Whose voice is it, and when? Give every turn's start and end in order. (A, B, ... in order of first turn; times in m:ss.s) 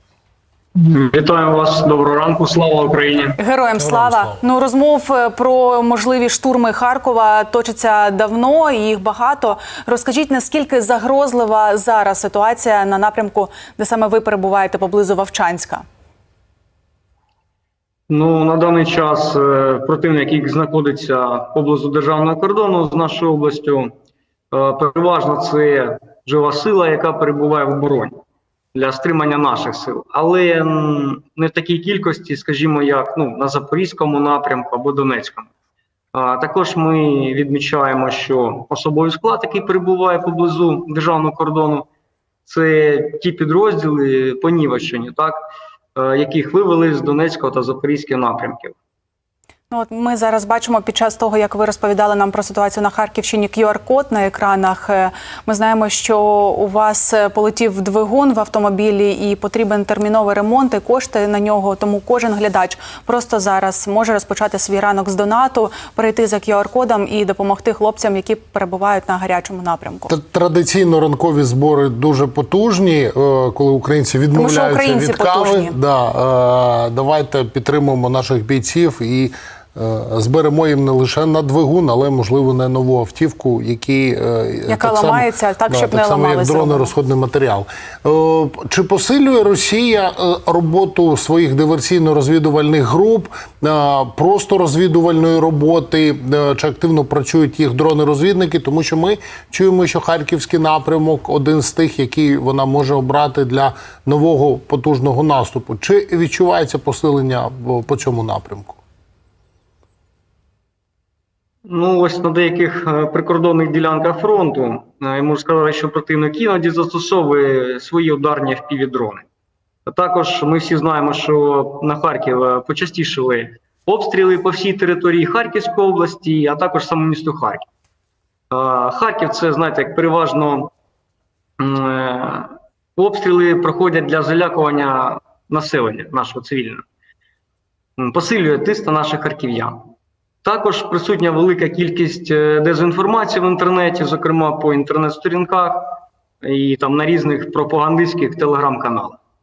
0:00.8-0:03.4 A
0:03.4-0:15.8 B
0:03.8-0:04.4 C
0:18.1-0:23.9 A
0:24.5-0:28.2 A
0:28.8-0:35.5 A
0:36.1-0:41.9 A
0:42.5-0:48.8 A
0:49.7-1:10.1 B
1:10.1-1:48.8 C
1:14.3-1:15.8 B
1:24.7-1:26.9 B
1:51.7-1:59.3 A
1:59.9-2:07.7 A
2:08.5-2:10.7 A
2:11.6-2:16.8 A
2:18.0-2:19.9 A
2:20.4-2:29.2 A